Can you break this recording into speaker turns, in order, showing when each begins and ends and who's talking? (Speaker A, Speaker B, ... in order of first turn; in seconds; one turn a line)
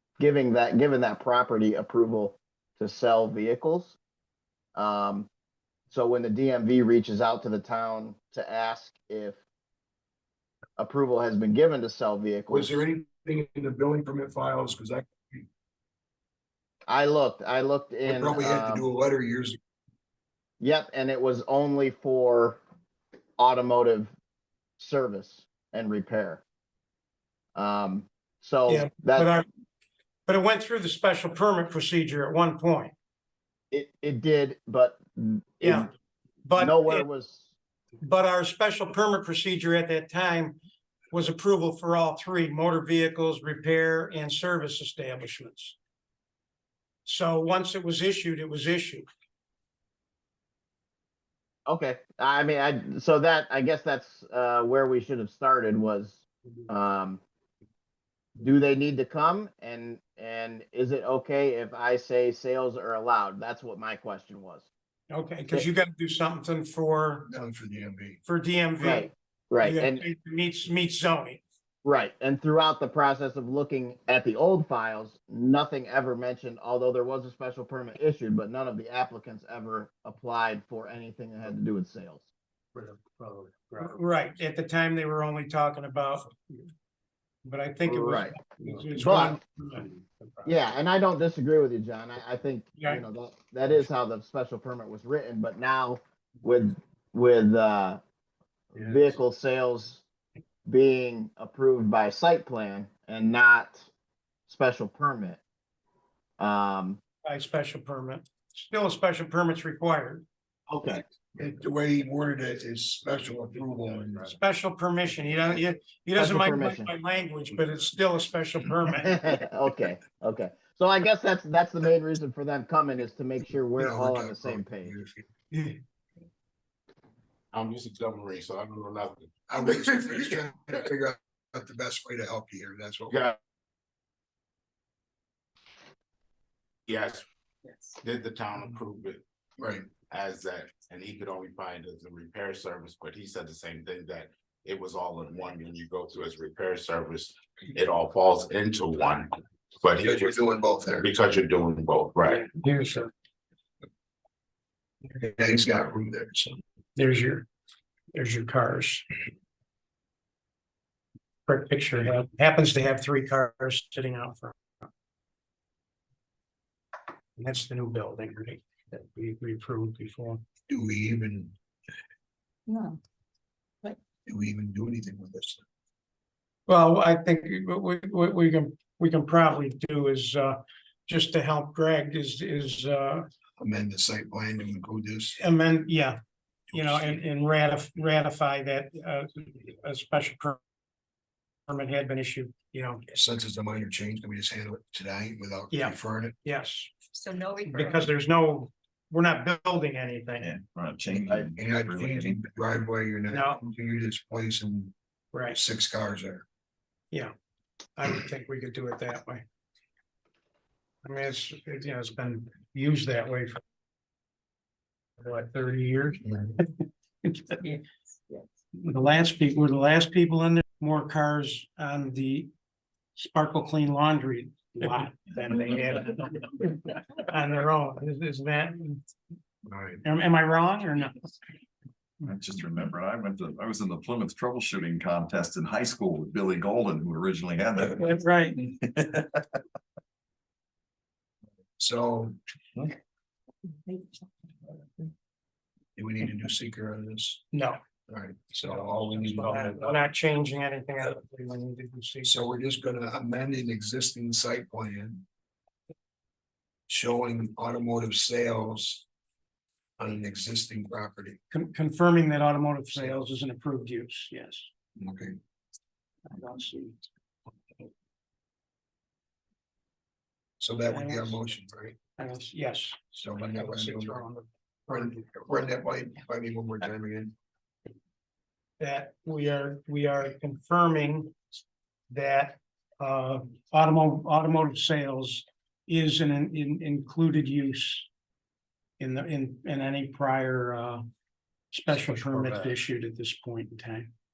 Speaker A: 0.2-4.0
Speaker A: 4.7-5.3
Speaker A: 5.9-9.4
Speaker A: 10.8-12.8
Speaker B: 12.5-15.5
Speaker A: 16.9-18.9
Speaker B: 18.1-19.6
Speaker A: 20.6-22.6
Speaker A: 23.4-24.1
Speaker A: 24.8-26.4
Speaker A: 27.5-29.3
Speaker C: 28.7-29.4
Speaker C: 30.3-32.9
Speaker A: 33.7-35.9
Speaker C: 35.6-35.9
Speaker C: 36.4-37.0
Speaker A: 36.6-37.5
Speaker C: 38.0-40.6
Speaker C: 41.1-45.8
Speaker C: 47.0-49.0
Speaker A: 51.7-57.2
Speaker A: 58.4-64.7
Speaker C: 65.1-67.3
Speaker B: 67.3-68.2
Speaker C: 68.2-71.4
Speaker A: 68.8-70.0
Speaker A: 71.8-82.3
Speaker C: 82.8-86.7
Speaker C: 87.4-90.5
Speaker A: 87.9-88.3
Speaker A: 89.0-89.4
Speaker A: 90.4-98.0
Speaker C: 92.8-93.0
Speaker A: 98.7-100.0
Speaker A: 100.7-103.9
Speaker A: 104.5-105.4
Speaker A: 106.4-107.0
Speaker C: 107.2-110.2
Speaker A: 110.7-111.0
Speaker B: 111.3-114.3
Speaker C: 114.3-119.3
Speaker A: 116.2-116.9
Speaker A: 119.0-125.0
Speaker B: 123.8-125.3
Speaker C: 125.5-125.8
Speaker D: 127.5-130.4
Speaker B: 129.5-133.2
Speaker D: 133.1-133.4
Speaker D: 136.9-137.2
Speaker E: 137.7-137.9
Speaker D: 138.0-139.2
Speaker B: 139.6-139.9
Speaker D: 140.1-150.4
Speaker B: 150.0-151.1
Speaker D: 151.0-152.4
Speaker C: 152.3-153.1
Speaker B: 155.2-156.6
Speaker C: 156.9-157.5
Speaker C: 158.1-159.0
Speaker C: 161.4-164.8
Speaker C: 167.4-170.4
Speaker B: 170.7-171.5
Speaker E: 172.7-173.0
Speaker B: 174.2-175.6
Speaker C: 176.7-183.2
Speaker B: 183.6-185.4
Speaker C: 185.4-186.2
Speaker C: 186.7-190.6
Speaker B: 186.7-187.2
Speaker C: 191.7-193.0
Speaker B: 193.1-196.3
Speaker C: 195.7-196.9
Speaker E: 197.1-198.1
Speaker C: 197.7-200.5
Speaker F: 200.4-202.4
Speaker B: 201.5-204.9
Speaker C: 203.3-203.6
Speaker C: 205.3-205.6
Speaker B: 205.5-206.4
Speaker C: 207.9-209.4
Speaker C: 211.0-213.6
Speaker C: 215.2-216.7
Speaker C: 217.2-217.6
Speaker E: 217.6-218.4
Speaker C: 218.8-222.5
Speaker C: 223.2-229.0
Speaker B: 229.7-230.0
Speaker C: 230.0-231.3
Speaker F: 232.2-239.6
Speaker C: 237.8-238.6
Speaker B: 241.8-242.4
Speaker E: 243.9-244.2
Speaker B: 245.9-247.4
Speaker C: 247.5-247.8
Speaker B: 248.1-250.0
Speaker C: 248.7-252.4
Speaker B: 252.2-255.2
Speaker B: 256.9-259.1
Speaker B: 260.0-261.4
Speaker C: 261.5-264.7
Speaker B: 265.0-265.4
Speaker C: 266.3-267.0
Speaker B: 270.6-272.0
Speaker C: 270.9-271.4
Speaker C: 272.2-275.2
Speaker B: 273.1-274.2
Speaker B: 274.9-277.3
Speaker C: 278.8-281.3
Speaker C: 282.1-288.1
Speaker C: 289.0-291.0
Speaker C: 291.7-294.1